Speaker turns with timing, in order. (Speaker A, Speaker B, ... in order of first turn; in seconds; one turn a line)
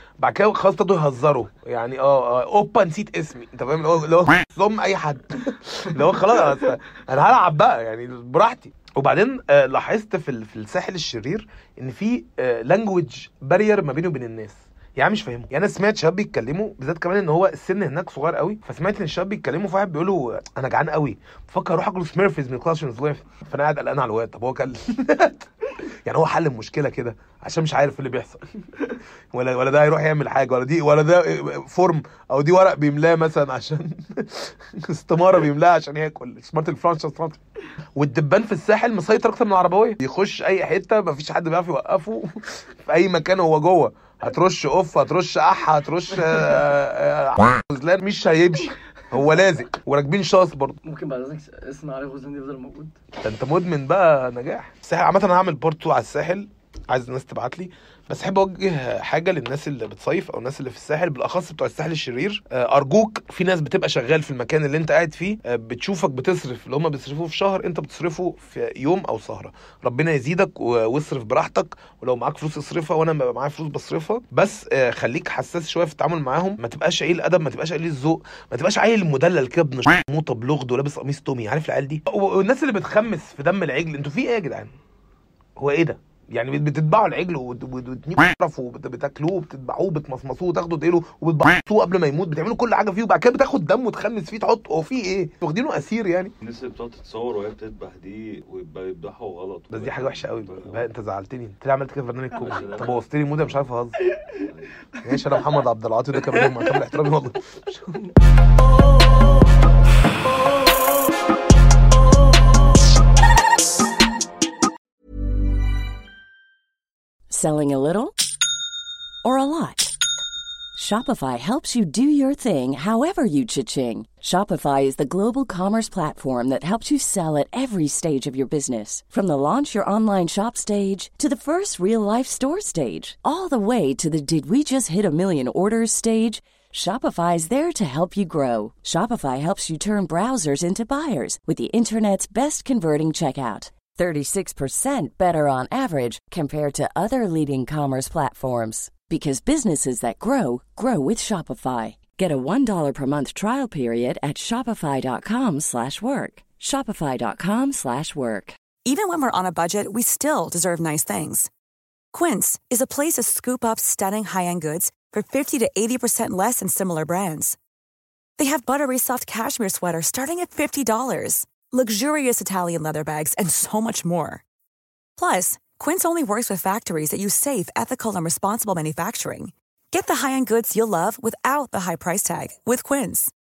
Speaker A: 0.2-25.4
Speaker A: 26.1-28.4
Speaker A: 29.3-37.4
Speaker A: 38.0-50.8
Speaker B: 50.8-52.9
Speaker A: 53.2-84.7
Speaker A: 85.6-96.3
Speaker C: 96.4-100.9
Speaker A: 99.7-104.0
Speaker C: 102.4-103.7
Speaker C: 104.4-104.7
Speaker A: 105.0-108.0
Speaker D: 117.3-118.1
Speaker D: 119.2-119.9
Speaker D: 120.7-158.6
Speaker E: 158.8-161.5
Speaker E: 162.1-167.6
Speaker E: 168.4-174.4
Speaker E: 175.2-183.3